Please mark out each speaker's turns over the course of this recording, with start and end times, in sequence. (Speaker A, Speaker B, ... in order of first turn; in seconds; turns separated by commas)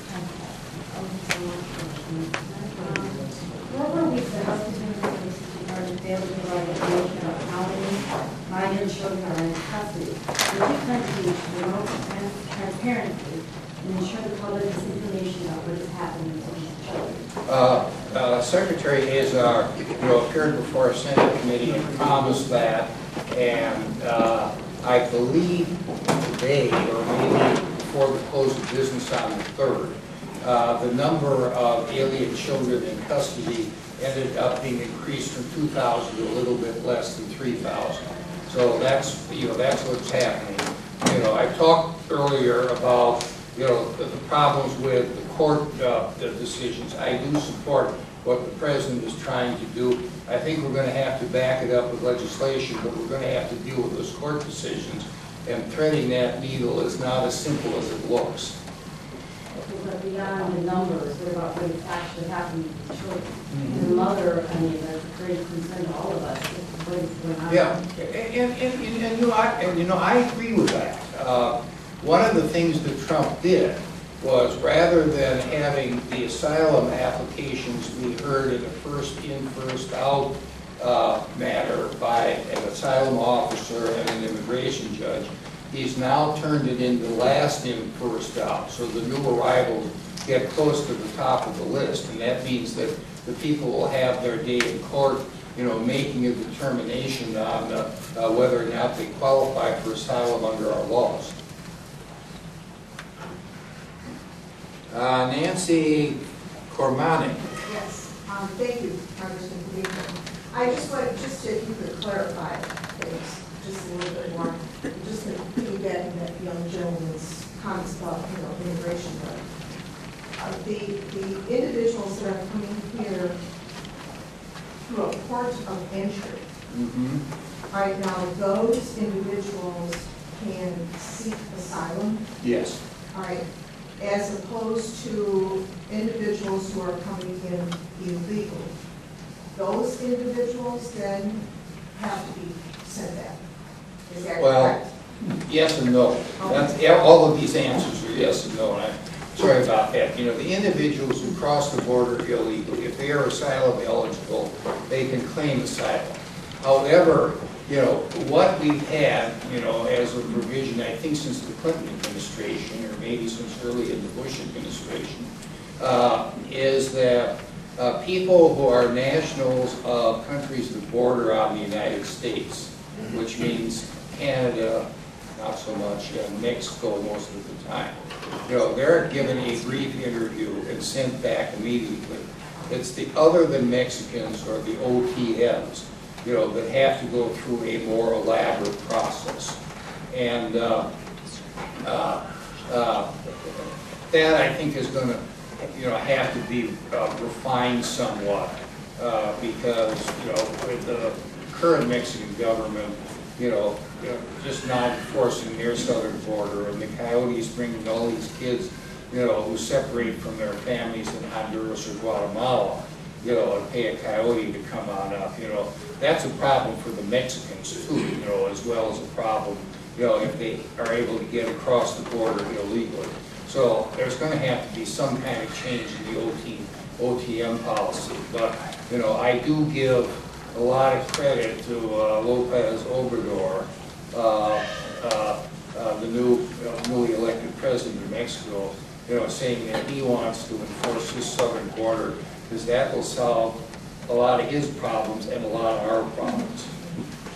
Speaker A: 0.1-17.2, Speaker B: 17.5-58.5, Speaker A: 59.6-67.8, Speaker B: 63.5-63.8, Speaker B: 67.5-101.3, Speaker B: 104.9-106.2, Speaker B: 106.7-107.4, Speaker C: 107.7-119.5, Speaker C: 120.4-123.3, Speaker C: 124.9-126.5, Speaker B: 126.7-127.2, Speaker C: 127.7-132.3, Speaker B: 132.4-132.8, Speaker C: 133.1-133.4, Speaker C: 134.0-138.7, Speaker C: 139.5-143.4, Speaker C: 144.1-144.9, Speaker B: 144.4-144.8, Speaker B: 145.4-165.3, Speaker C: 146.4-146.7, Speaker B: 165.8-174.8, Speaker B: 175.4-178.0, Speaker B: 178.5-189.6, Speaker B: 190.1-190.9, Speaker B: 191.8-246.7